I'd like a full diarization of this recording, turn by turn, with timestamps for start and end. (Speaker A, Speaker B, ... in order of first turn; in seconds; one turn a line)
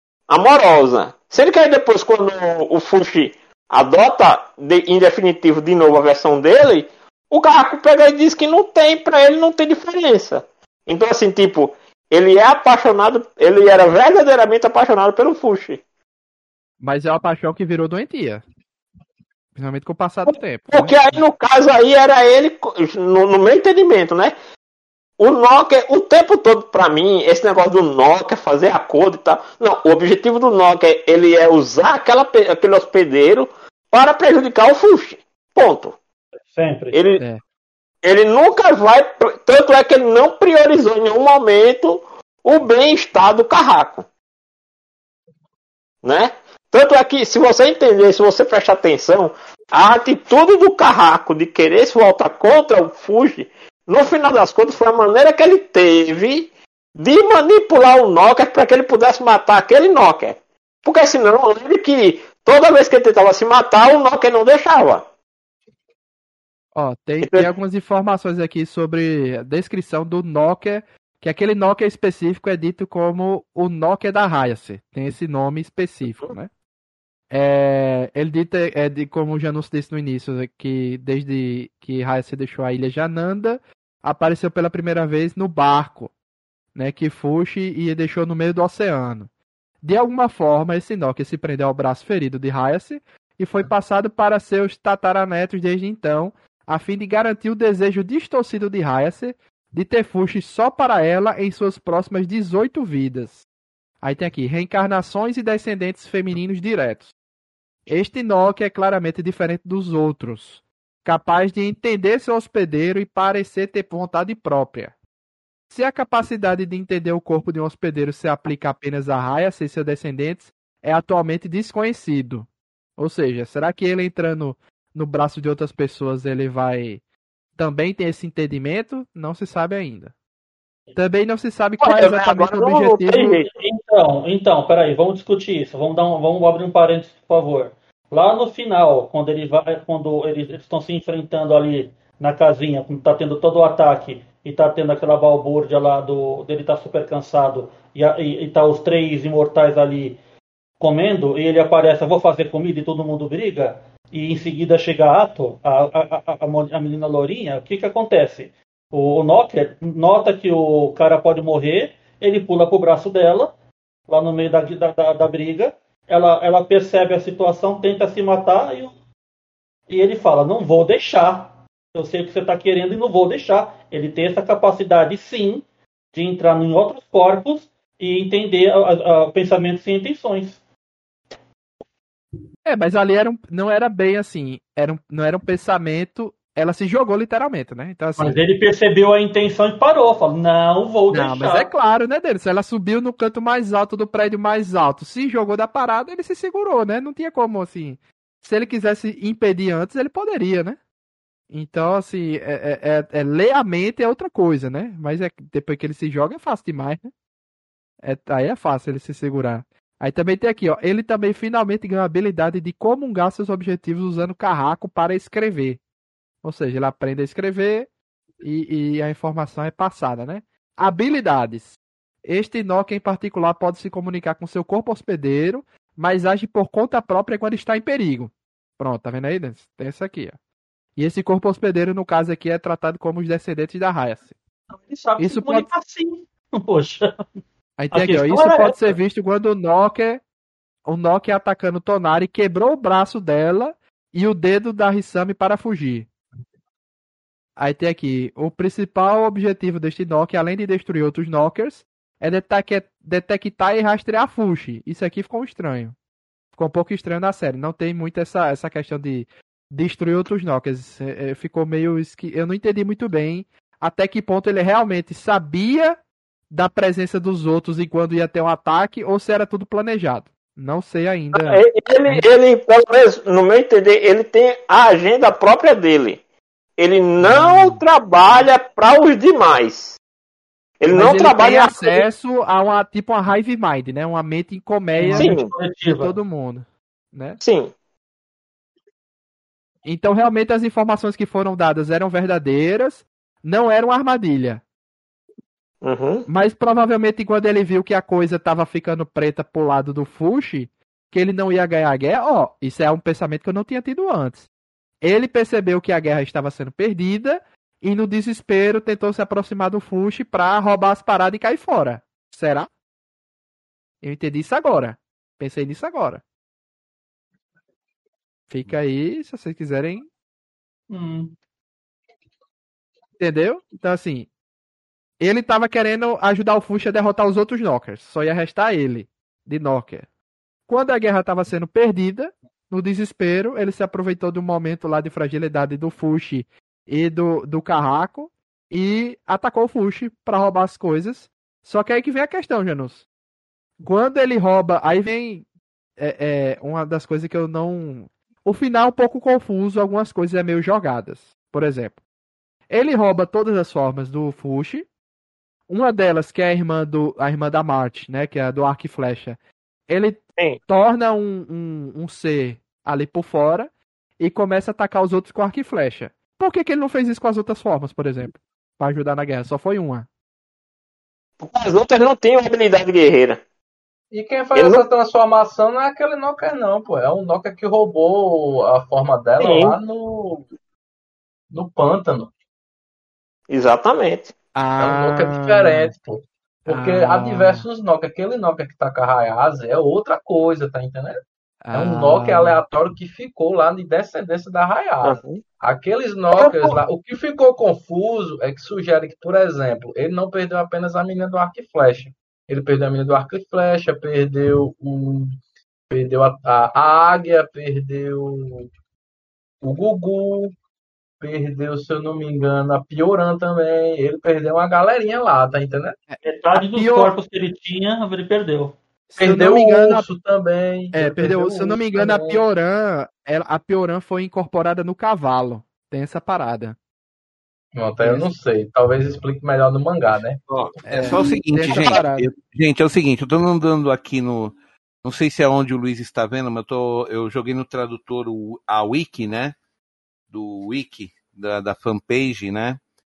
Speaker A: 0.3-15.8
Speaker B: 16.8-18.4
Speaker B: 19.5-21.1
Speaker A: 20.7-24.3
Speaker A: 25.2-35.9
Speaker C: 36.5-37.0
Speaker A: 36.9-37.2
Speaker A: 38.0-44.0
Speaker A: 46.0-65.0
Speaker B: 66.7-76.5
Speaker A: 67.2-67.5
Speaker B: 77.3-86.1
Speaker B: 86.7-89.3
Speaker B: 89.8-103.5
Speaker B: 104.0-107.1
Speaker B: 107.9-114.9
Speaker B: 115.7-127.0
Speaker B: 127.6-130.1
Speaker B: 130.9-133.4
Speaker A: 131.8-133.5
Speaker C: 133.5-150.2
Speaker C: 150.8-163.5
Speaker C: 164.1-168.9
Speaker C: 169.9-180.6
Speaker B: 182.6-188.4
Speaker C: 188.2-191.7
Speaker B: 191.1-200.8
Speaker B: 201.5-207.1
Speaker B: 208.0-215.8
Speaker B: 216.4-217.9
Speaker B: 218.4-230.4
Speaker B: 230.9-234.3
Speaker C: 234.7-237.2
Speaker B: 235.2-235.7
Speaker B: 237.8-240.2
Speaker C: 237.9-238.9
Speaker B: 240.8-246.1
Speaker B: 247.6-255.9
Speaker B: 256.5-266.0
Speaker B: 266.5-272.2
Speaker A: 271.3-276.2
Speaker A: 276.8-280.0
Speaker B: 277.2-277.8
Speaker A: 280.8-282.0
Speaker B: 280.9-285.3
Speaker C: 285.0-286.1
Speaker A: 285.1-285.5
Speaker B: 286.0-287.4
Speaker A: 287.4-287.7
Speaker B: 289.8-294.6
Speaker A: 295.8-296.3
Speaker B: 296.3-304.5
Speaker B: 305.0-312.7
Speaker B: 314.0-316.2
Speaker B: 318.5-320.1
Speaker C: 320.9-321.3
Speaker B: 323.2-324.3
Speaker B: 325.2-330.1
Speaker B: 330.7-343.1
Speaker B: 343.8-345.4
Speaker B: 346.0-352.0
Speaker B: 352.7-354.9
Speaker B: 355.7-370.1
Speaker A: 371.4-373.4
Speaker D: 374.1-380.5
Speaker A: 374.6-374.8
Speaker A: 379.4-379.8
Speaker D: 381.5-382.3
Speaker A: 383.5-384.3
Speaker B: 384.5-385.9
Speaker D: 384.8-391.2
Speaker B: 386.7-387.6
Speaker B: 391.6-392.6
Speaker D: 391.7-405.4
Speaker A: 395.0-395.4
Speaker A: 396.4-396.7
Speaker D: 405.9-408.7
Speaker D: 409.6-410.5
Speaker D: 411.2-416.0
Speaker B: 416.1-417.1
Speaker C: 416.3-418.8
Speaker B: 419.1-420.1
Speaker D: 419.2-422.4
Speaker B: 420.9-426.8
Speaker D: 427.7-431.8
Speaker B: 428.0-428.3
Speaker E: 430.5-439.6
Speaker B: 430.8-432.3
Speaker E: 440.3-442.8